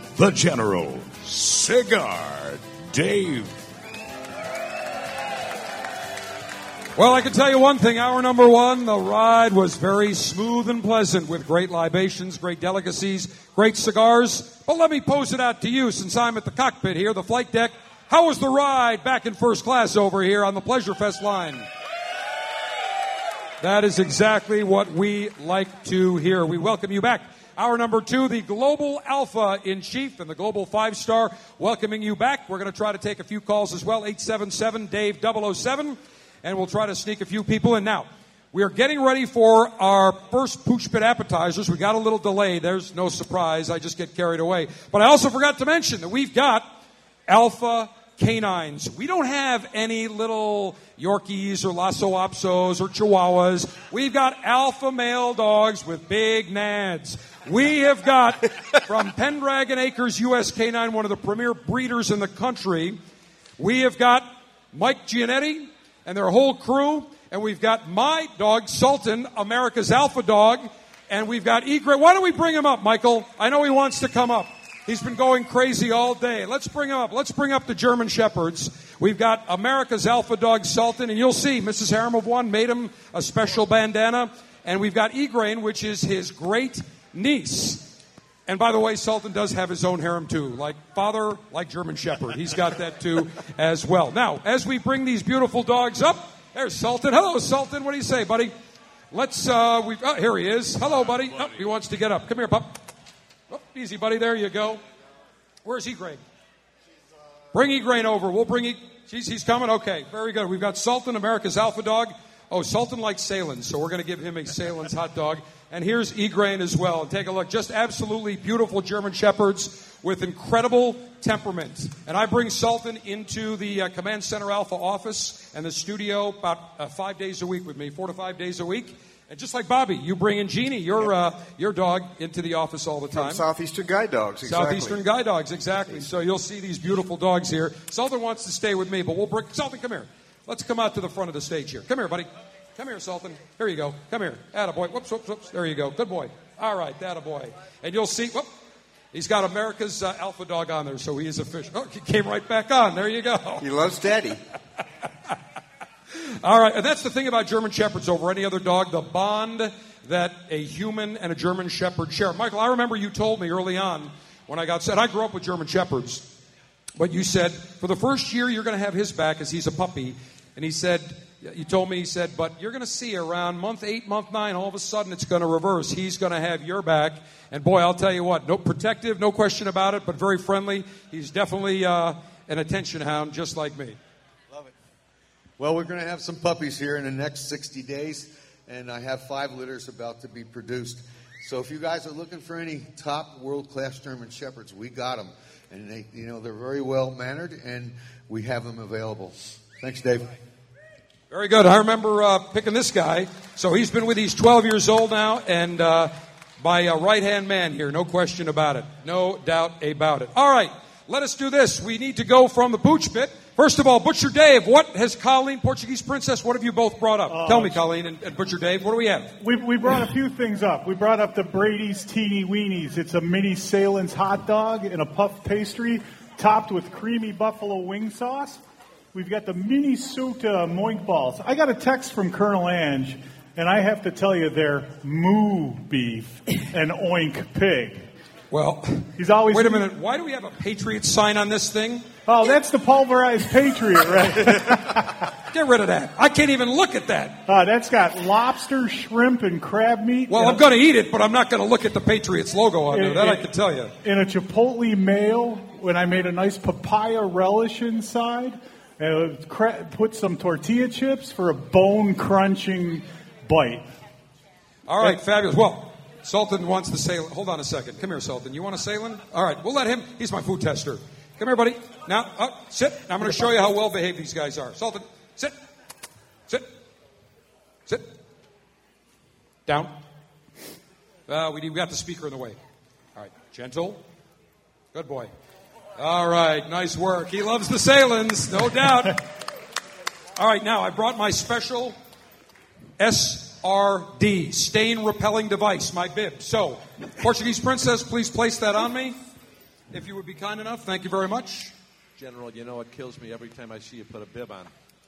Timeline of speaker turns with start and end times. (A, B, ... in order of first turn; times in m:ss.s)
0:00.1-0:03.5 A
0:07.0-0:21.7 B
0:23.6-0:46.7 B
0:47.3-1:03.0 B
1:03.6-1:27.9 B
1:28.5-1:38.5 B
1:39.1-1:42.8 B
1:43.5-1:44.8 B
1:45.6-1:46.2 B
1:47.5-2:13.4 B
2:13.1-2:15.0 C
2:14.4-2:28.5 B
2:29.1-2:33.6 B
2:33.6-2:34.4 C
2:36.4-2:46.3 B
2:47.0-3:04.0 B
3:05.6-3:20.3 D
3:21.3-3:39.4 B
3:37.3-3:37.8 E
3:39.4-3:48.6 E
3:49.1-3:58.0 E
3:58.5-4:02.1 B
3:59.2-3:59.9 E
4:02.2-4:05.2 E
4:05.5-4:07.4 B
4:07.5-4:10.6 E
4:10.3-4:13.9 B
4:12.9-4:13.4 E
4:14.0-4:23.9 E
4:24.9-4:35.5 B
4:39.7-4:40.0 B
4:41.3-4:42.6 B
4:43.2-4:44.0 B
4:44.9-4:45.3 B
4:46.0-4:49.2 B
4:50.4-4:52.0 B
4:53.0-4:59.2 B
4:59.9-5:01.7 B
5:02.2-5:04.7 F